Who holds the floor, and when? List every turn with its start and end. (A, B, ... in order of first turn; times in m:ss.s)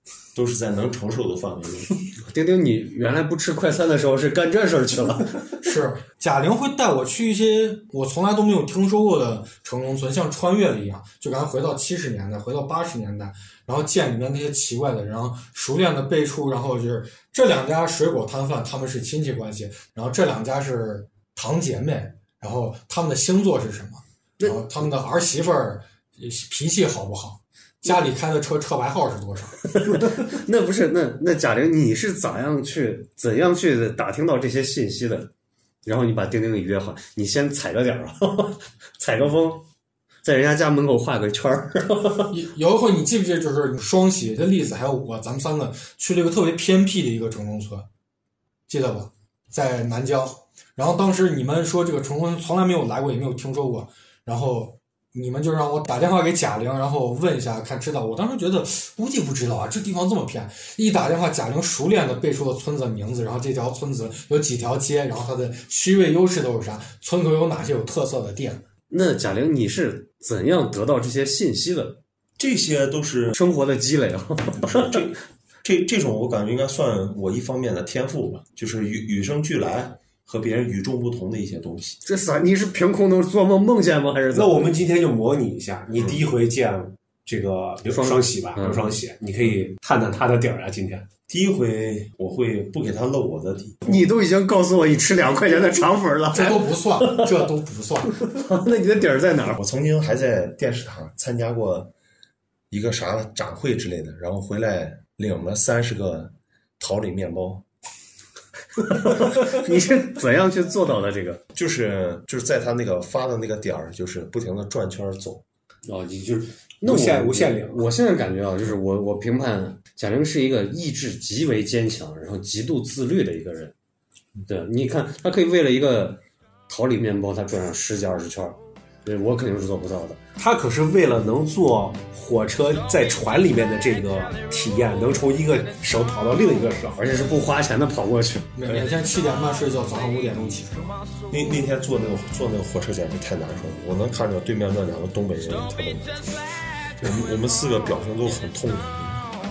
0:00.3-0:01.9 A
0:02.2-0:05.5 B
0:05.6-0:29.6 C
0:29.7-0:35.3 B
0:35.8-0:39.6 B
0:40.2-0:42.3 B
0:42.3-0:47.9 C
0:48.7-1:08.6 C
1:08.9-1:12.0 B
1:12.4-1:13.4 A
1:13.4-1:15.1 B
1:14.6-1:22.0 A
1:22.0-1:24.7 B
1:24.3-1:31.1 D
1:25.9-1:26.2 A
1:27.8-1:28.9 B
1:31.3-1:34.0 A
1:33.8-1:37.3 B
1:36.3-1:38.3 C
1:38.2-1:39.6 B
1:39.6-1:41.9 A
1:42.7-1:47.6 A
1:48.8-1:51.4 B
1:51.5-1:55.4 A
1:55.8-2:03.7 B
1:56.8-1:57.8 D
2:04.5-2:10.2 B
2:10.4-2:17.0 D
2:17.0-2:18.5 B
2:18.5-2:20.9 C
2:18.6-2:18.9 A
2:19.8-2:21.5 E
2:21.3-2:26.4 A
2:26.2-2:27.0 E
2:27.0-2:29.3 A